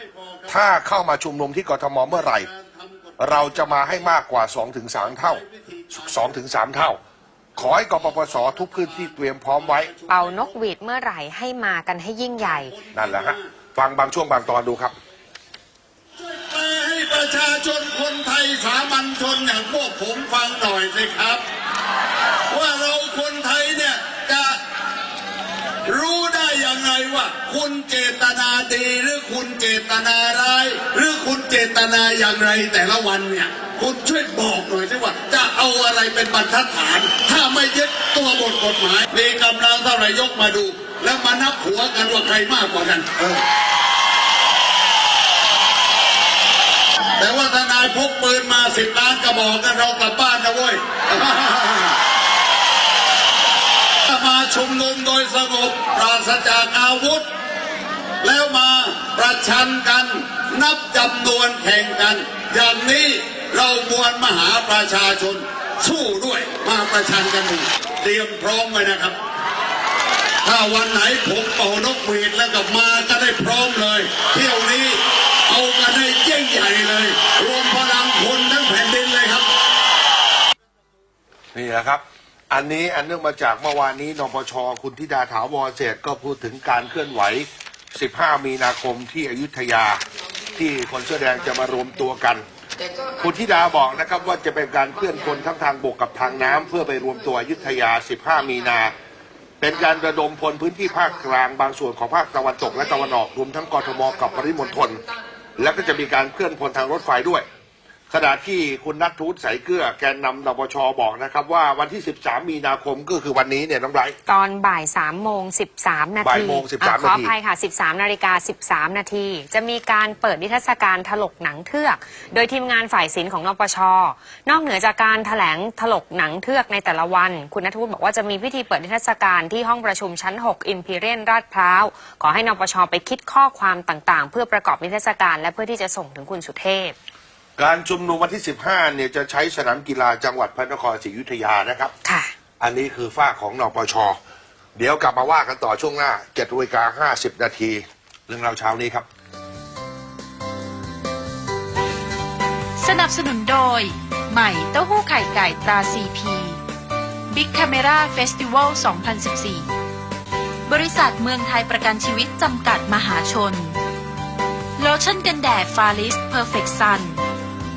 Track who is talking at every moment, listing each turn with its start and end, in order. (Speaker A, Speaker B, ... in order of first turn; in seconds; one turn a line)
Speaker A: 0.2-0.4
Speaker B: 0.5-2.5
Speaker B: 3.2-7.0
Speaker B: 7.6-9.9
Speaker A: 8.8-10.4
Speaker C: 10.1-12.8
Speaker B: 12.9-14.9
Speaker A: 16.2-21.4
Speaker A: 22.5-24.6
Speaker A: 25.9-43.4
Speaker A: 47.2-52.0
Speaker A: 54.1-57.3
Speaker A: 58.2-69.2
Speaker A: 70.4-79.5
Speaker B: 81.5-92.4
Speaker B: 93.1-98.9
Speaker B: 99.6-107.5
Speaker B: 108.1-114.2
Speaker C: 114.3-136.9
Speaker B: 116.2-117.3
Speaker B: 137.6-141.9
Speaker C: 142.1-142.3
Speaker B: 142.6-144.2
Speaker B: 144.8-149.1
Speaker D: 152.8-156.6
Speaker D: 157.3-159.7
Speaker D: 160.7-163.8
Speaker D: 164.8-167.2